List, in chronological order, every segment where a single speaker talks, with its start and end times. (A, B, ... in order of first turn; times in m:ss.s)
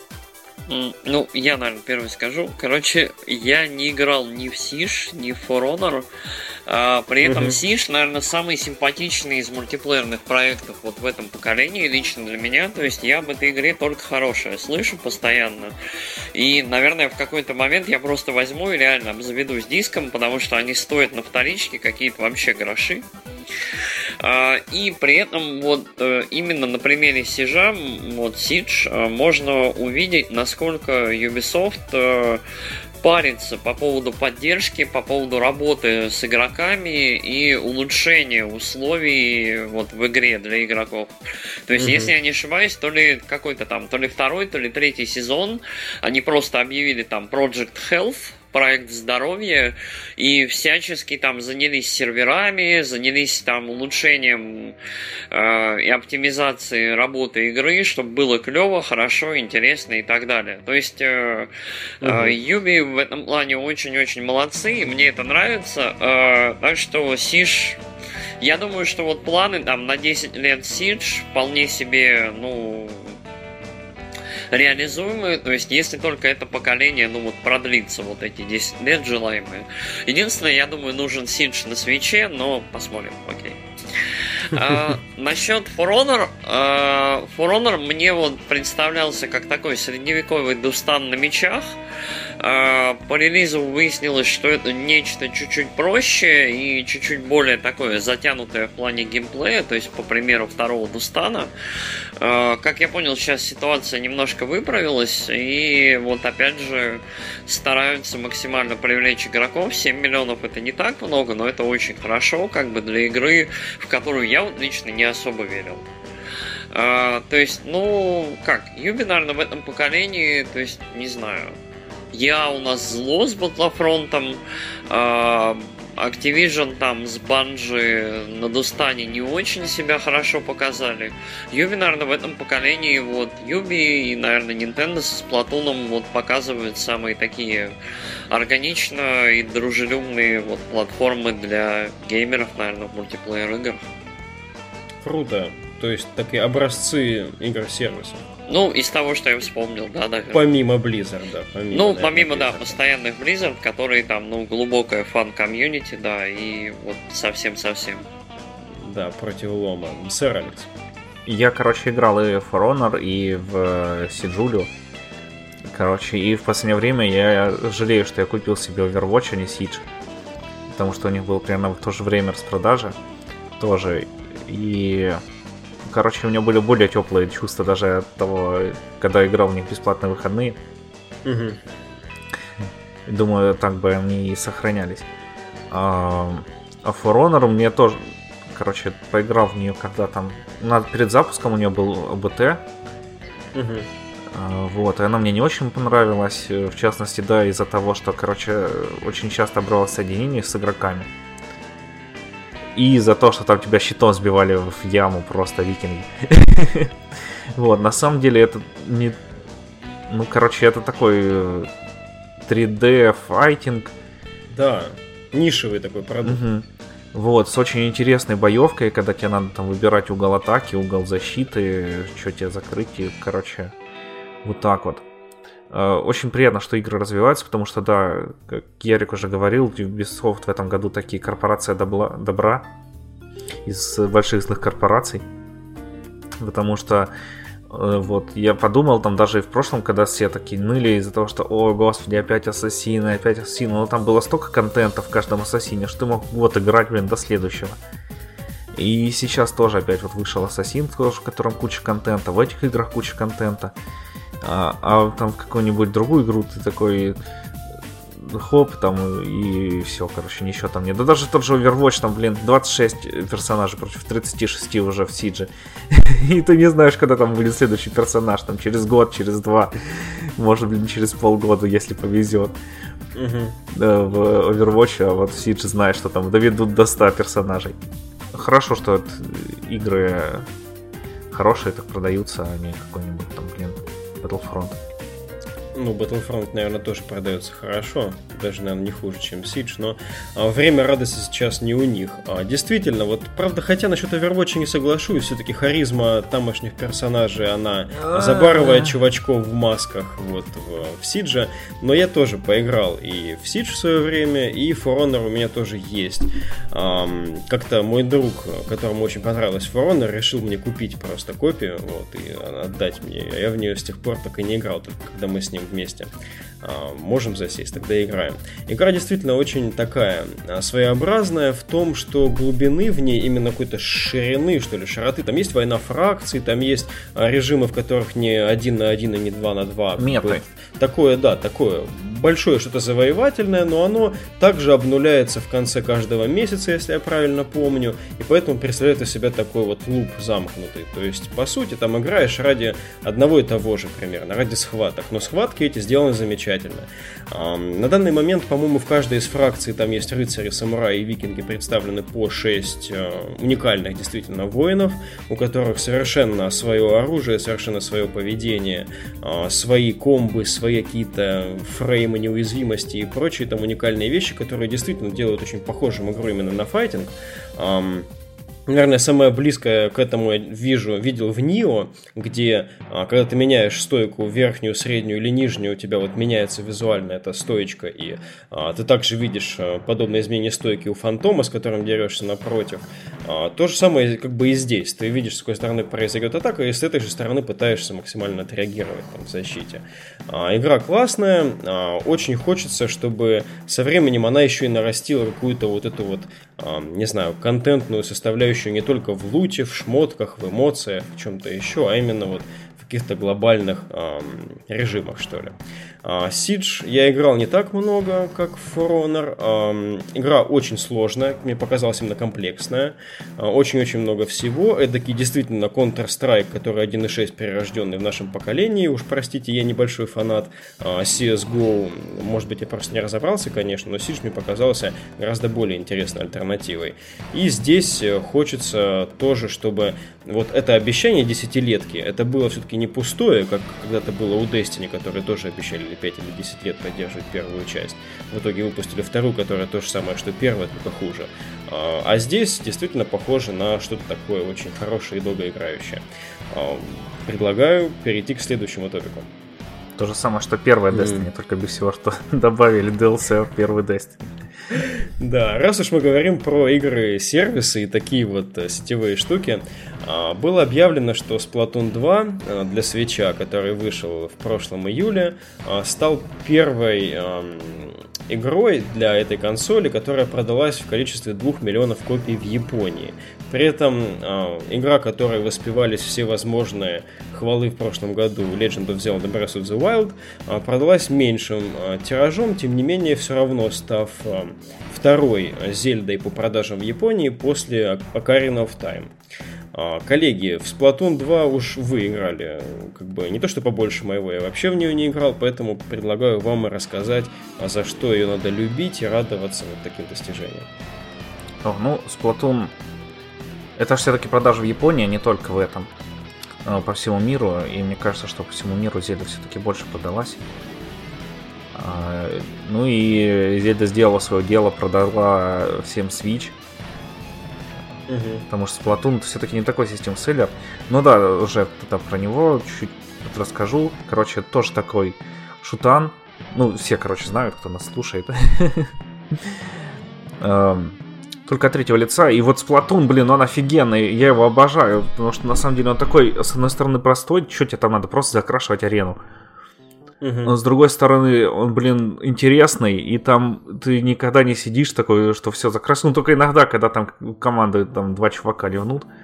0:00.7-0:06.1 A
0:06.7-0:15.7 A
0:07.2-0:07.6 B
0:16.3-0:23.1 A
0:24.2-0:32.4 A
0:33.0-0:41.1 A
0:41.7-0:54.8 A
0:41.8-0:42.1 B
0:55.3-1:01.5 A
1:02.0-1:07.8 A
1:02.0-1:02.4 B
1:08.4-1:13.2 A
1:14.5-1:31.8 A
1:24.6-1:24.9 B
1:32.4-1:41.5 A
1:42.2-1:55.8 A
1:56.7-2:01.6 A
2:02.1-2:17.7 A
2:18.3-2:23.9 A
2:25.0-2:28.2 B
2:28.5-2:30.4 A
2:30.3-2:32.8 B
2:31.7-2:38.0 A
2:38.7-2:40.7 B
2:41.3-2:44.7 C
2:45.7-2:49.8 C
2:50.7-2:53.0 C
2:53.6-2:55.2 C
2:55.9-3:00.6 C
3:01.2-3:01.6 B
3:03.1-3:05.1 C
3:05.7-3:12.6 C
3:13.5-3:13.9 B
3:14.3-3:21.1 C
3:22.8-3:29.2 C
3:30.1-3:31.7 C
3:32.4-3:33.9 C
3:34.5-3:36.4 B
3:36.2-3:43.7 C
3:44.4-3:45.0 C
3:45.7-3:52.7 C
3:53.6-3:55.2 C
3:56.4-3:57.1 C
3:57.7-4:07.8 C
4:08.8-4:13.7 C
4:14.4-4:17.2 C
4:18.1-4:32.6 C
4:33.2-4:33.6 B
4:33.7-4:37.8 C
4:38.3-4:40.5 C
4:41.3-4:44.8 C
4:45.8-5:16.1 B
4:57.9-4:59.0 C
5:16.6-6:08.1 B
5:30.0-5:30.4 C
6:08.7-7:29.3 B
7:30.0-7:34.4 C
7:30.9-7:31.3 B
7:35.2-8:09.1 B
8:09.7-8:20.7 B
8:21.6-8:22.7 C
8:23.8-8:25.9 C
8:26.6-8:30.4 C
8:31.7-8:36.6 C
8:38.1-8:38.4 B
8:38.5-8:49.6 C
8:50.4-8:59.2 C
9:00.2-9:00.5 B
9:00.4-9:09.1 C